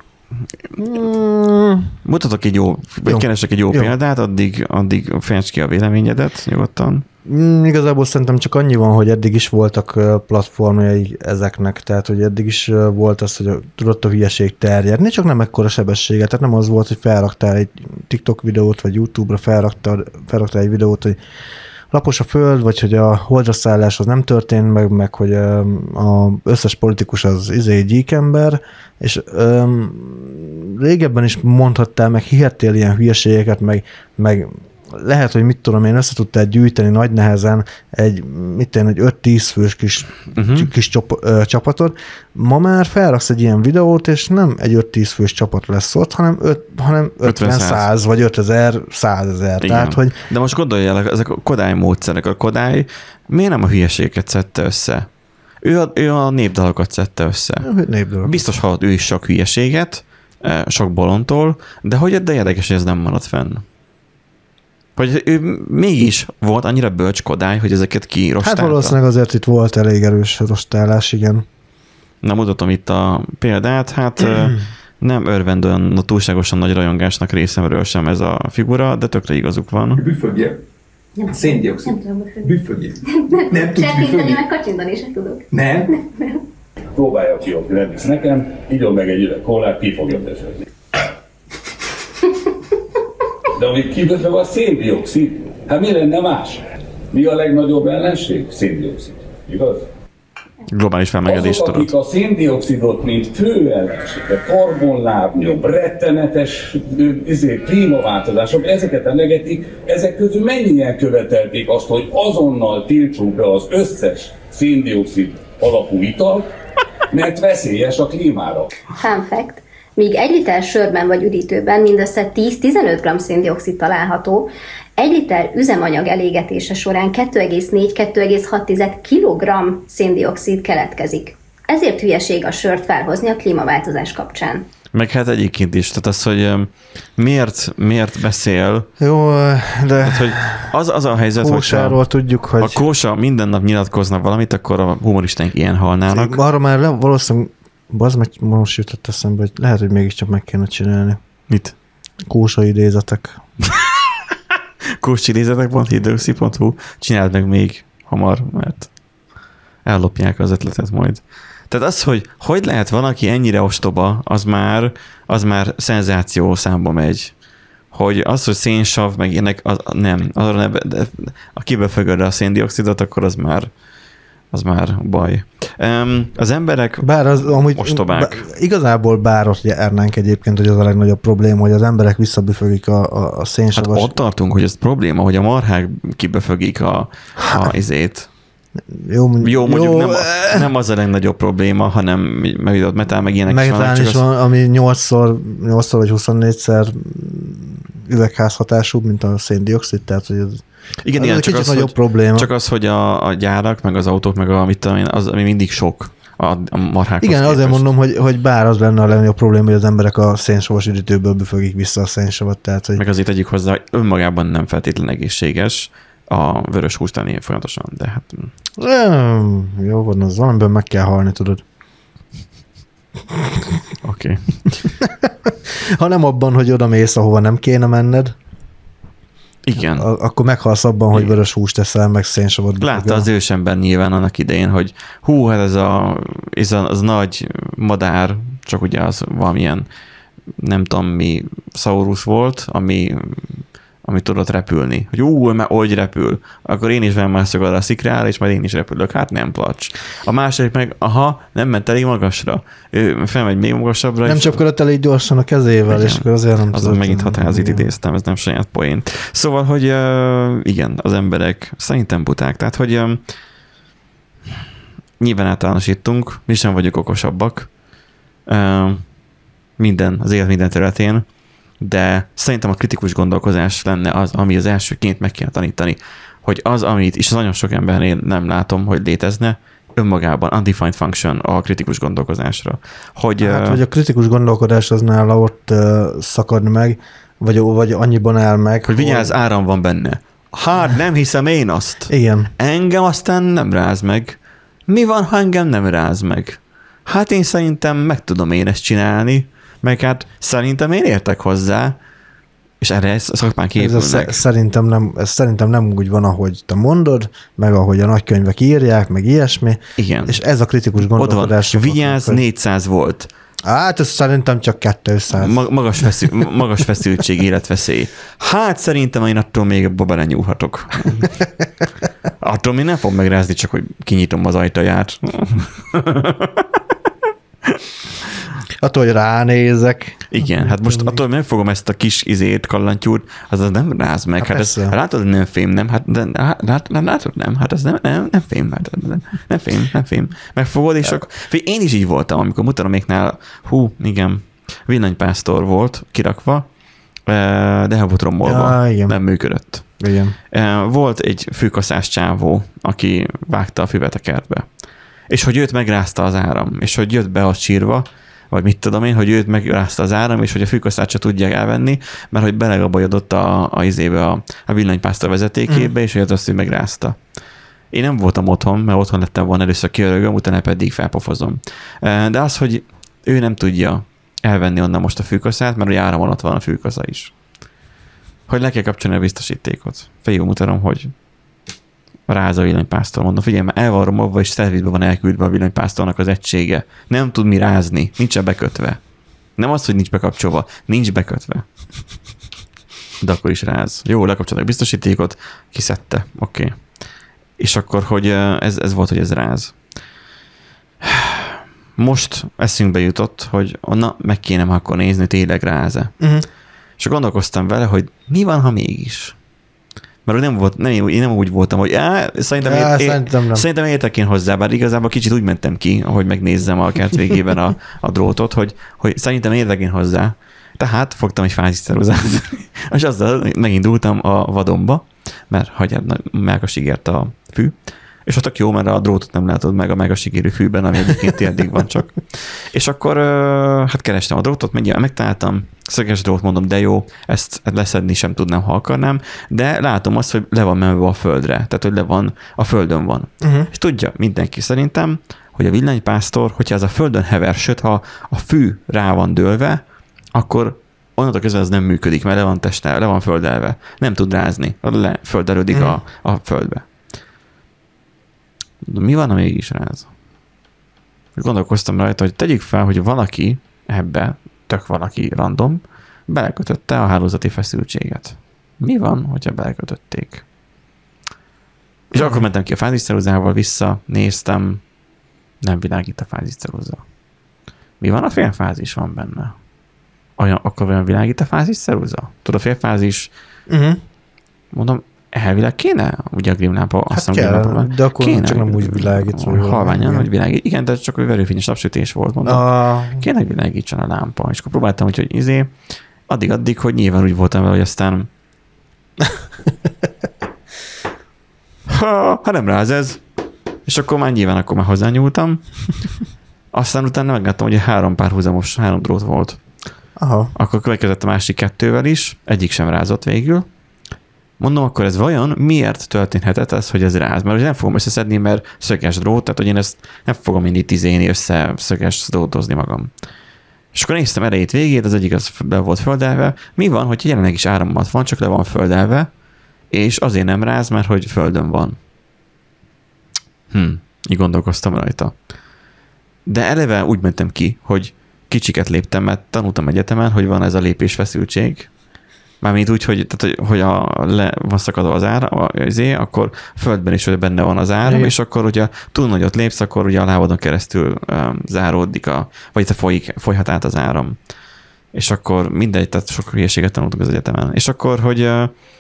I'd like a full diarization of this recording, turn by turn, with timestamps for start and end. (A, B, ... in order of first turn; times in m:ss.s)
0:00.8-0:02.0 A
0:02.0-0:07.0 B
0:03.1-0:03.9 A
0:07.2-0:21.2 A
0:21.9-0:50.2 A
0:40.4-0:40.7 B
0:47.2-0:47.9 B
0:49.6-0:55.1 B
0:55.6-0:57.7 B
0:57.6-0:58.4 A
0:58.2-1:03.6 B
1:05.0-1:09.0 B
1:08.4-1:11.5 A
1:12.2-1:20.0 B
1:14.2-1:14.6 A
1:20.0-1:20.6 C
1:21.2-1:22.4 D
1:21.2-1:24.4 C
1:23.2-1:25.5 D
1:25.5-1:26.0 C
1:26.9-1:30.7 E
1:33.5-1:39.9 E
1:40.7-1:41.9 B
1:41.3-1:56.5 E
1:57.1-1:58.7 E
1:59.0-2:14.7 D
2:14.9-2:18.9 B
2:19.0-2:20.8 A
2:20.0-2:22.0 B
2:21.4-2:22.8 A
2:22.6-2:26.4 B
2:26.1-2:31.2 A
2:31.5-2:31.8 B
2:32.3-2:33.4 A
2:35.0-2:38.9 B
2:39.8-2:47.3 B
2:47.9-2:53.7 B
2:54.5-2:58.5 B
2:57.0-3:04.1 A
3:03.8-3:08.3 B
3:08.9-3:10.7 A
3:09.4-3:14.2 B
3:13.5-3:20.6 A
3:21.0-3:27.9 B
3:21.2-3:22.5 A
3:27.2-3:33.0 A
3:33.0-3:38.5 B
3:38.8-3:41.6 A
3:43.3-3:43.6 A
3:44.0-3:44.8 B
3:45.0-3:48.3 A
3:49.6-3:50.1 B
3:49.8-3:53.3 A
3:52.8-3:59.9 B
4:00.6-4:14.6 B
4:14.2-4:17.8 A
4:15.9-4:23.2 B
4:25.2-4:27.7 B
4:28.5-4:29.1 B
4:29.8-4:31.3 B
4:31.8-4:43.8 B
4:43.4-4:49.3 A
4:48.8-5:02.0 B
4:52.1-4:52.5 A
5:02.8-5:04.4 B
5:03.8-5:12.4 A
5:10.0-5:10.4 B
5:11.1-5:13.3 B
5:13.7-5:16.3 A
5:15.3-5:21.3 B
5:22.4-5:26.7 B
5:28.8-5:31.2 A
5:30.3-5:46.7 B
5:34.4-5:35.0 A
5:47.2-5:50.0 B
5:48.4-5:49.2 A
5:50.0-5:50.4 A
5:50.5-5:54.7 B
5:55.3-6:07.2 B
6:07.9-6:17.4 B
6:18.5-6:21.1 B
6:22.3-6:29.0 B
6:29.6-6:31.7 B
6:33.2-6:36.8 B
6:37.6-6:39.8 B
6:41.0-6:46.1 B
6:46.2-6:46.5 A
6:47.0-6:49.4 B
6:50.3-7:29.8 B
6:52.6-6:53.6 A
7:23.4-7:23.7 A
7:30.3-7:36.9 B
7:35.7-7:36.0 A
7:38.8-7:40.1 B
7:41.4-7:50.4 B
7:52.1-7:54.8 B
7:52.2-7:52.4 A
7:55.6-7:57.0 B
7:58.0-7:59.6 B
8:00.4-8:03.3 B
8:03.7-8:04.0 A
8:04.7-8:15.7 B
8:07.1-8:10.3 A
8:12.5-8:13.3 A
8:16.3-8:18.3 B
8:21.9-8:23.2 B
8:23.9-8:25.9 B
8:26.7-8:29.6 B
8:30.2-8:30.5 A
8:30.6-8:33.7 B
8:34.6-8:43.1 B
8:43.9-8:49.3 B
8:49.9-8:52.0 B
8:53.7-8:55.3 B
8:56.5-9:01.9 B
9:02.6-9:14.4 B
9:08.0-9:08.3 A
9:15.1-9:18.8 B